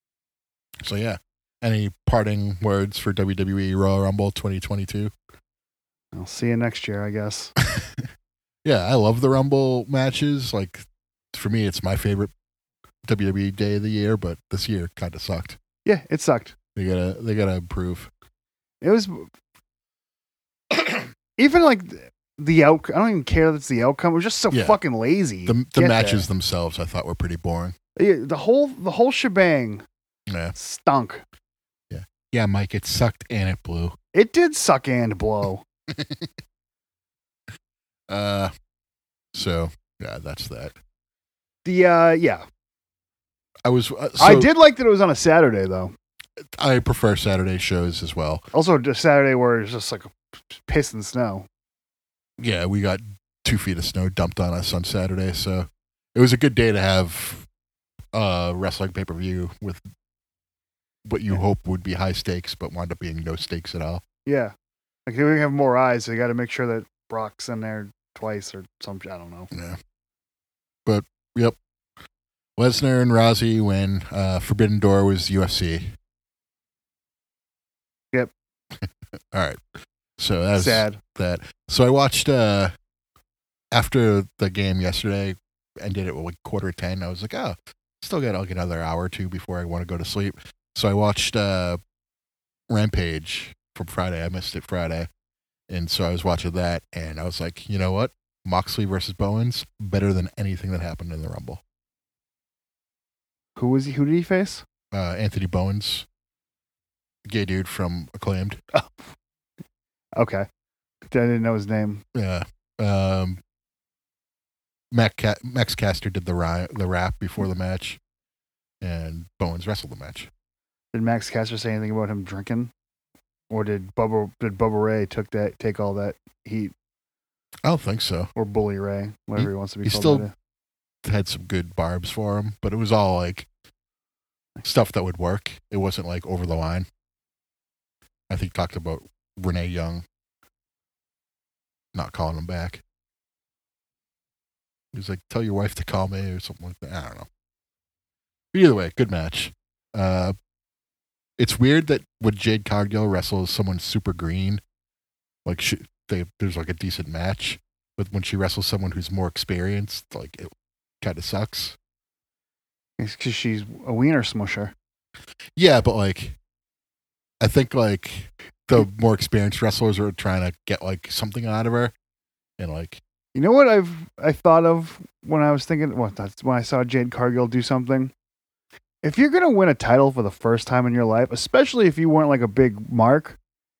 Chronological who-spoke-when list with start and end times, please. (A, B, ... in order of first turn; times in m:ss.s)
0:00.8-0:05.1 A
0:06.1-0:07.5 B
0:07.6-0:08.1 A
0:08.6-0:12.3 A
0:13.0-0:15.6 A
0:15.8-0:16.6 B
0:16.8-0:18.1 A
0:18.8-0:19.3 B
0:21.4-0:26.3 B
0:24.5-0:24.8 A
0:25.5-0:27.8 A
0:28.0-0:29.9 B
0:30.3-0:30.6 A
0:30.6-0:31.2 B
0:31.9-0:34.0 A
0:34.1-0:35.6 B
0:35.9-0:36.3 A
0:38.1-0:38.5 A
0:39.3-0:40.8 A
0:41.6-0:42.4 B
0:43.6-0:44.5 A
0:44.2-0:45.9 B
0:46.4-0:48.5 A
0:48.5-0:51.5 B
0:52.4-0:57.5 A
0:58.1-0:59.8 A
1:01.0-1:04.0 A
1:04.3-1:04.5 B
1:05.1-1:09.5 B
1:09.5-1:09.8 A
1:10.9-1:11.6 A
1:12.6-1:16.0 A
1:18.8-1:19.6 A
1:20.2-1:22.7 A
1:20.6-1:21.0 B
1:23.7-1:31.8 A
1:32.7-1:35.1 A
1:35.7-1:41.6 A
1:43.6-1:44.6 B
1:44.9-1:46.1 A
1:47.3-1:48.6 A
1:48.7-1:49.0 B
1:50.2-1:50.5 B
1:51.1-1:52.0 B
1:52.1-1:53.4 A
1:54.9-1:58.0 A
1:58.8-2:00.3 A
2:00.9-2:02.7 B
2:03.5-2:06.7 B
2:07.6-2:08.3 A
2:08.4-2:10.3 B
2:09.4-2:10.3 A
2:11.0-2:13.5 A
2:14.6-2:16.9 A
2:18.3-2:20.0 A
2:21.9-2:22.8 A
2:24.9-2:27.3 A
2:28.5-2:30.4 A
2:31.4-2:34.6 A
2:35.4-2:41.8 A
2:43.0-2:44.7 B
2:45.6-2:46.4 A
2:47.4-2:51.9 A
2:52.6-2:53.0 A
2:53.4-2:58.1 B
2:59.0-3:03.4 B